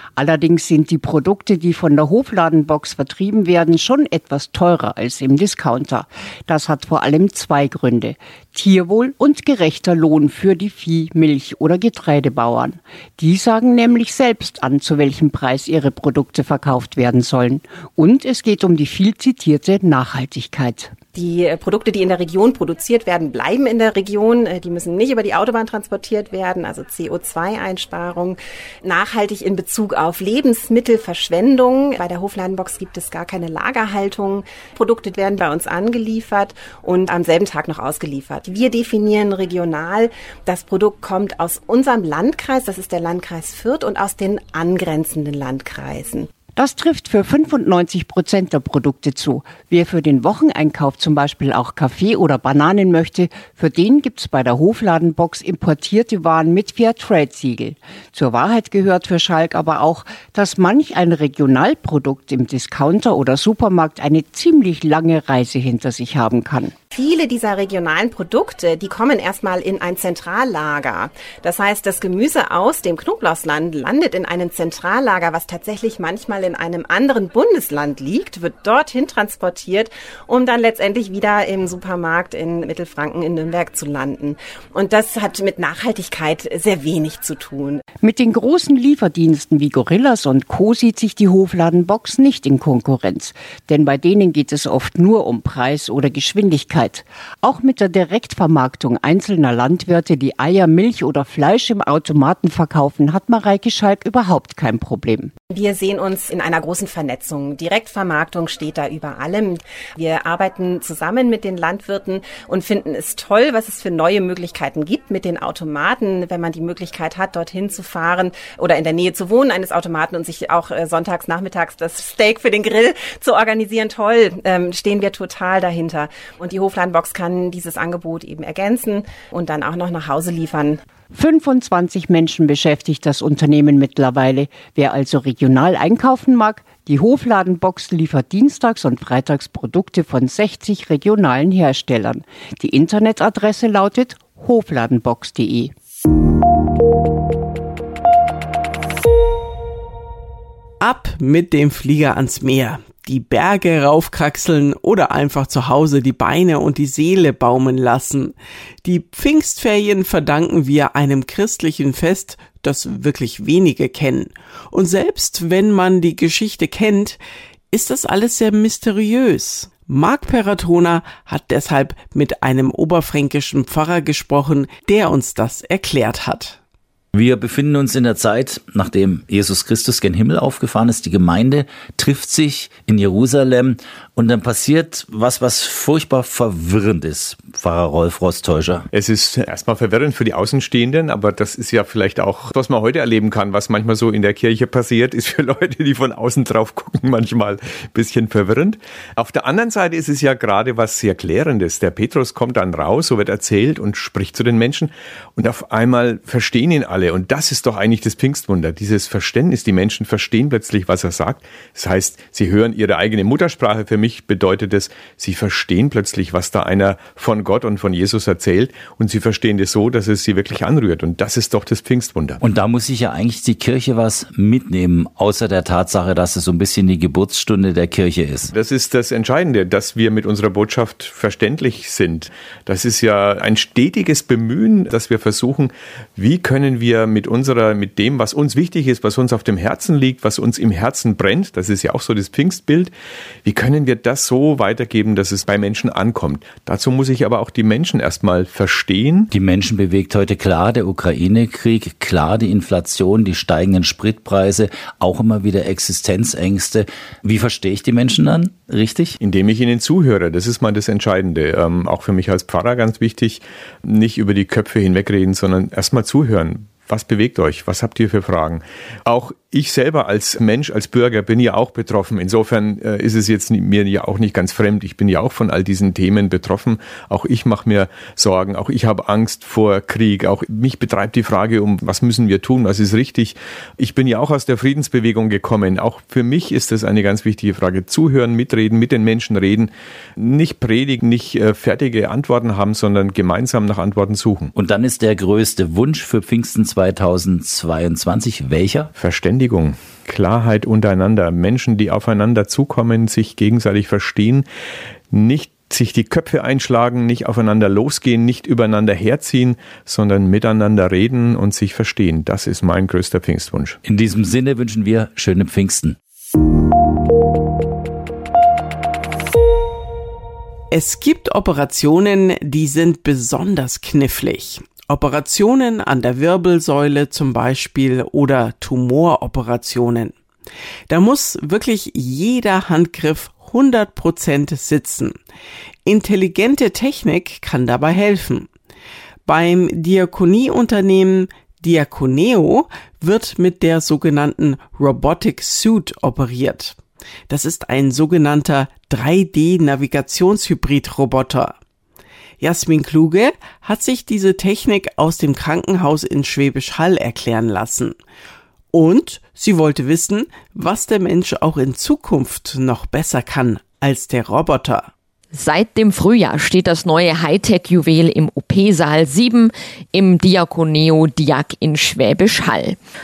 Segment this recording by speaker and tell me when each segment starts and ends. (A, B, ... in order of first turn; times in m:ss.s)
0:00.2-0:20.9 A
0:21.1-0:46.3 B
0:46.6-1:06.7 A
1:06.9-1:27.8 B
1:28.0-1:45.3 A
1:45.5-2:10.8 B
2:11.1-2:25.7 A
2:30.8-2:47.2 C
2:47.7-2:56.6 C
2:57.1-3:08.8 D
3:08.9-3:42.4 E
3:42.4-3:48.5 D
3:48.5-4:02.9 E
4:03.4-4:09.3 E
4:09.3-4:19.1 D
4:19.2-4:54.5 E
4:54.6-4:58.9 D
4:58.9-5:04.4 E
5:05.1-5:13.8 E
5:13.8-5:16.0 D
5:20.7-5:30.1 C
5:30.9-5:35.1 C
5:35.8-5:38.5 C
5:39.2-5:46.8 C
5:47.3-5:51.5 C
5:52.4-5:57.9 C
5:58.7-6:04.9 C
6:05.3-6:12.8 F